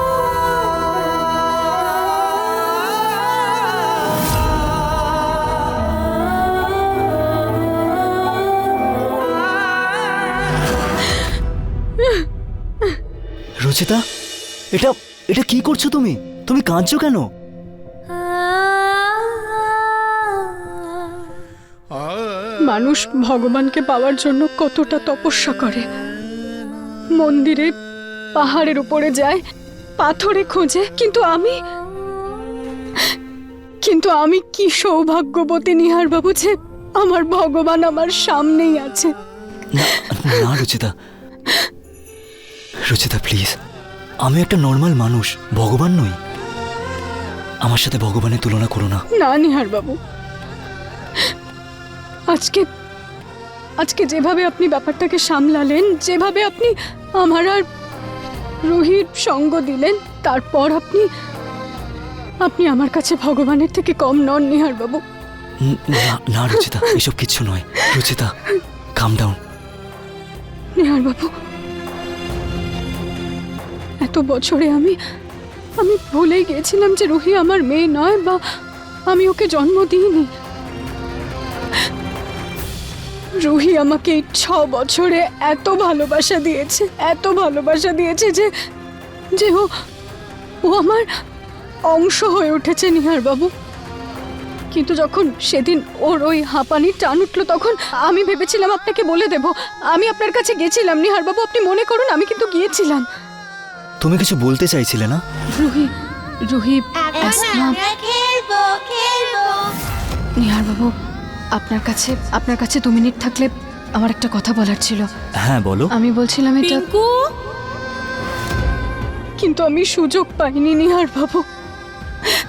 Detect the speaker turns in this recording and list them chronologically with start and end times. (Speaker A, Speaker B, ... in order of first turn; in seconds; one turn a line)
Speaker A: 13.7-14.0
Speaker A: 14.7-17.3
Speaker B: 22.6-25.9
Speaker B: 27.1-27.7
Speaker B: 28.4-29.4
Speaker B: 30.0-31.6
Speaker B: 33.8-39.1
Speaker A: 39.7-40.9
Speaker B: 39.8-40.6
Speaker A: 42.9-43.5
Speaker A: 44.2-46.2
Speaker A: 47.6-49.0
Speaker B: 49.1-50.0
Speaker B: 52.3-52.7
Speaker B: 53.8-57.6
Speaker B: 58.6-61.1
Speaker B: 62.4-65.0
Speaker A: 65.6-68.3
Speaker B: 66.6-67.0
Speaker A: 69.0-69.4
Speaker B: 70.8-71.3
Speaker B: 74.0-75.0
Speaker B: 75.8-78.4
Speaker B: 79.1-80.3
Speaker B: 83.4-88.5
Speaker B: 89.3-89.7
Speaker B: 90.6-91.1
Speaker B: 91.9-93.5
Speaker B: 94.7-103.1
Speaker A: 104.0-105.2
Speaker B: 105.5-105.9
Speaker B: 106.5-107.8
Speaker C: 107.2-109.8
Speaker B: 110.4-110.9
Speaker B: 111.5-115.1
Speaker A: 115.4-115.9
Speaker B: 115.9-116.9
Speaker B: 119.4-121.5